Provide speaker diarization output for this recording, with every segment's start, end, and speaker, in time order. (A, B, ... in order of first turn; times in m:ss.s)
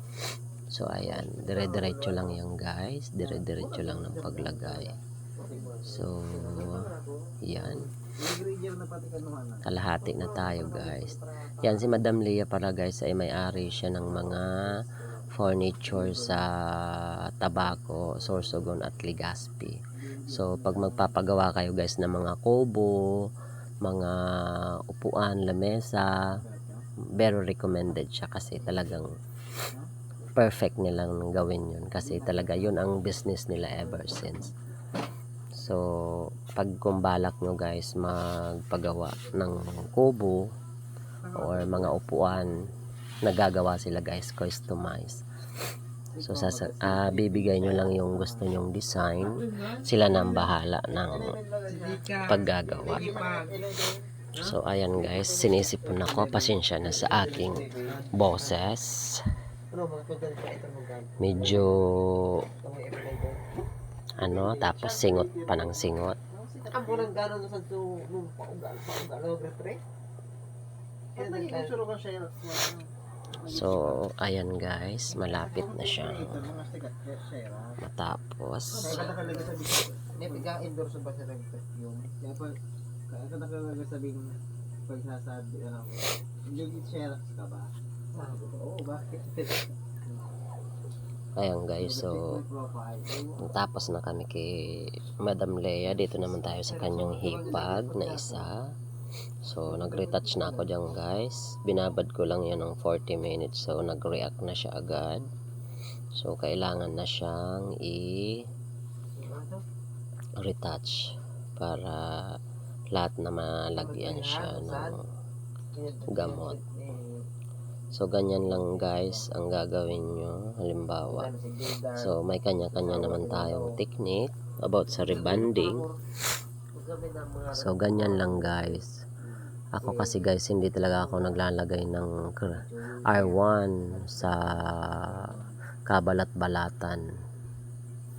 0:00.7-0:04.9 A
0:01.1-0:02.3 B
0:03.2-0:06.7 B
0:05.4-0:07.2 C
0:05.8-0:06.9 A
0:07.4-0:07.9 A
0:08.0-0:09.6 B
0:09.6-0:23.3 A
0:10.0-0:12.0 C
0:13.8-0:14.6 C
0:20.0-0:21.1 B
0:23.8-0:26.2 A
0:26.4-0:26.8 B
0:27.2-0:29.2 A
0:30.4-0:34.5 A
0:32.0-0:32.6 B
0:35.5-0:40.5 A
0:41.2-0:42.4 B
0:41.3-0:42.6 A
0:43.2-0:45.2 A
0:46.2-0:48.4 B
0:46.2-0:51.4 A
0:49.5-0:49.9 C
0:50.9-0:54.0 B
0:51.7-0:53.7 C
0:52.2-0:53.2 A
0:54.4-0:59.3 A
0:55.1-0:58.0 B
0:57.9-0:58.6 C
0:59.7-1:01.7 C
1:01.2-1:02.5 A
1:02.6-1:03.6 C
1:04.2-1:06.2 A
1:04.2-1:07.1 B
1:06.7-1:09.8 C
1:11.2-1:11.8 C
1:11.2-1:12.9 B
1:13.4-1:14.0 B
1:13.4-1:16.7 A
1:15.4-1:17.8 B
1:17.8-1:19.2 A
1:18.8-1:22.1 C
1:18.8-1:20.5 B
1:22.1-1:22.6 B
1:23.1-1:29.7 B
1:28.1-1:28.5 C
1:31.4-1:32.4 A
1:31.8-1:33.4 B
1:33.4-1:38.7 A
1:36.7-1:38.5 C
1:39.4-1:45.3 A
1:39.7-1:40.6 C
1:46.2-1:48.4 A
1:49.2-1:49.6 C
1:50.4-1:52.4 A
1:52.9-1:55.1 A
1:53.7-1:55.0 C
1:55.7-1:57.2 C
1:56.1-1:56.6 A
1:57.9-2:01.4 A
1:58.4-1:59.3 C
2:01.1-2:02.1 C
2:01.9-2:05.8 A
2:02.7-2:03.8 C
2:04.9-2:06.0 C
2:06.7-2:08.8 C
2:07.5-2:09.0 A
2:09.8-2:15.3 A
2:09.8-2:11.4 C
2:12.5-2:15.4 C
2:15.9-2:17.0 A